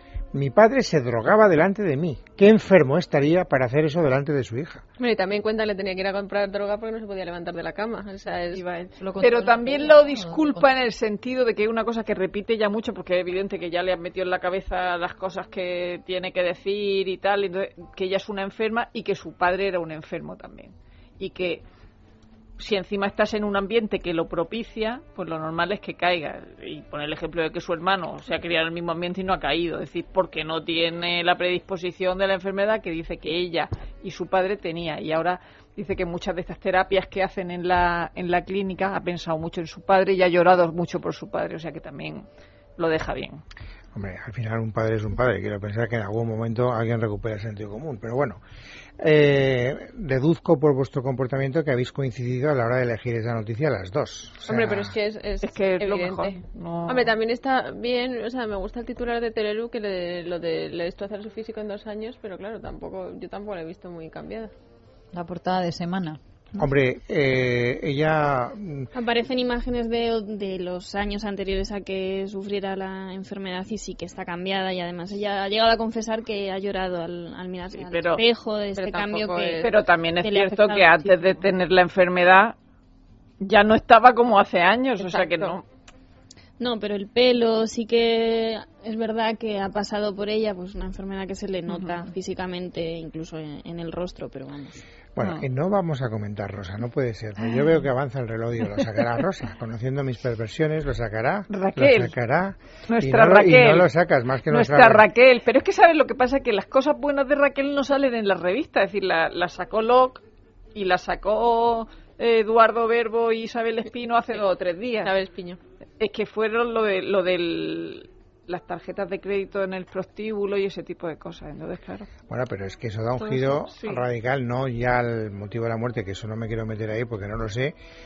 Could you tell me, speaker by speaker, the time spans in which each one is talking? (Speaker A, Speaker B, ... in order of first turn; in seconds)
Speaker A: 0.3-4.8, 43.9-48.4, 49.0-54.9, 66.6-68.9, 95.2-105.1, 122.3-127.8
Speaker B: 5.0-8.6, 54.5-64.5, 78.8-79.7, 85.1-85.5, 115.0-115.6
Speaker C: 8.5-21.6, 22.6-42.2, 42.8-43.4, 55.4-57.1, 77.7-78.2, 79.6-82.5, 83.4-85.6, 91.7-92.0, 95.2-95.4, 101.5-102.1, 102.9-103.9, 104.5-110.2, 110.7-115.1, 116.0-122.1, 123.3-124.0
Speaker D: 9.0-10.6, 65.1-66.2
Speaker E: 68.9-79.7, 80.2-81.2, 86.6-94.8